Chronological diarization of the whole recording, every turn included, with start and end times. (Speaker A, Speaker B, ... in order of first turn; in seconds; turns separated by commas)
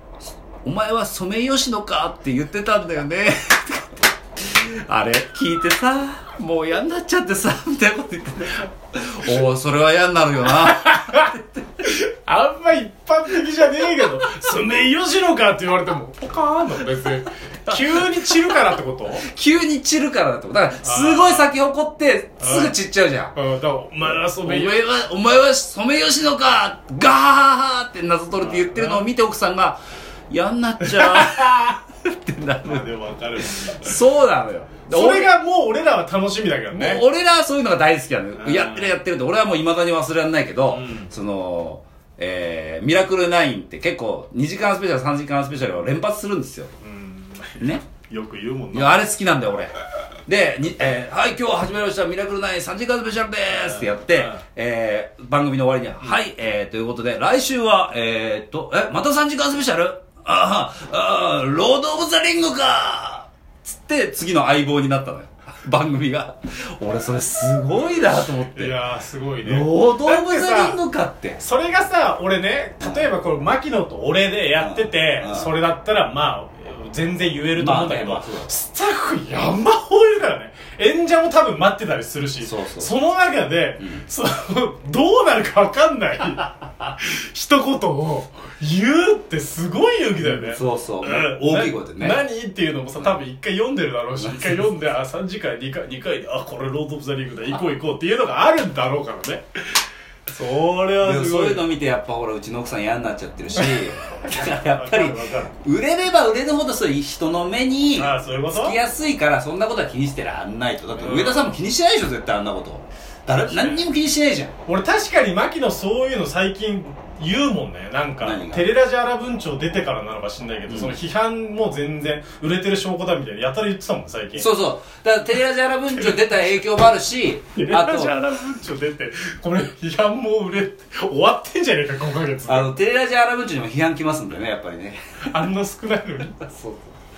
Speaker A: 0.2-11.8, Speaker B: 10.5-19.3, Speaker A: 17.7-18.6, Speaker A: 19.2-23.4, Speaker B: 20.8-21.5, Speaker B: 22.4-22.8, Speaker B: 23.3-24.8, Speaker A: 24.4-32.9, Speaker B: 28.4-29.1, Speaker B: 30.8-31.6, Speaker B: 32.6-34.0, Speaker A: 33.4-35.3, Speaker B: 34.9-37.0, Speaker A: 36.7-46.7, Speaker B: 38.4-39.0, Speaker B: 40.7-41.1, Speaker B: 46.8-49.0, Speaker A: 47.6-47.9, Speaker A: 48.7-49.7, Speaker A: 50.3-68.7, Speaker B: 53.5-54.5, Speaker B: 68.5-70.8, Speaker A: 69.4-71.4, Speaker B: 71.4-101.7, Speaker A: 72.8-73.1, Speaker A: 74.6-75.5, Speaker A: 77.6-78.5, Speaker A: 82.4-82.9, Speaker A: 83.8-84.0, Speaker A: 90.2-92.2, Speaker A: 94.2-94.6, Speaker A: 101.0-114.5, Speaker B: 103.6-105.5, Speaker B: 108.0-108.8, Speaker B: 111.0-111.6, Speaker B: 113.3-113.8, Speaker B: 114.7-124.5, Speaker A: 118.2-118.7, Speaker A: 120.7-121.0, Speaker A: 124.4-128.1, Speaker B: 127.6-132.8, Speaker A: 132.5-135.5, Speaker B: 135.2-136.4, Speaker A: 136.2-136.9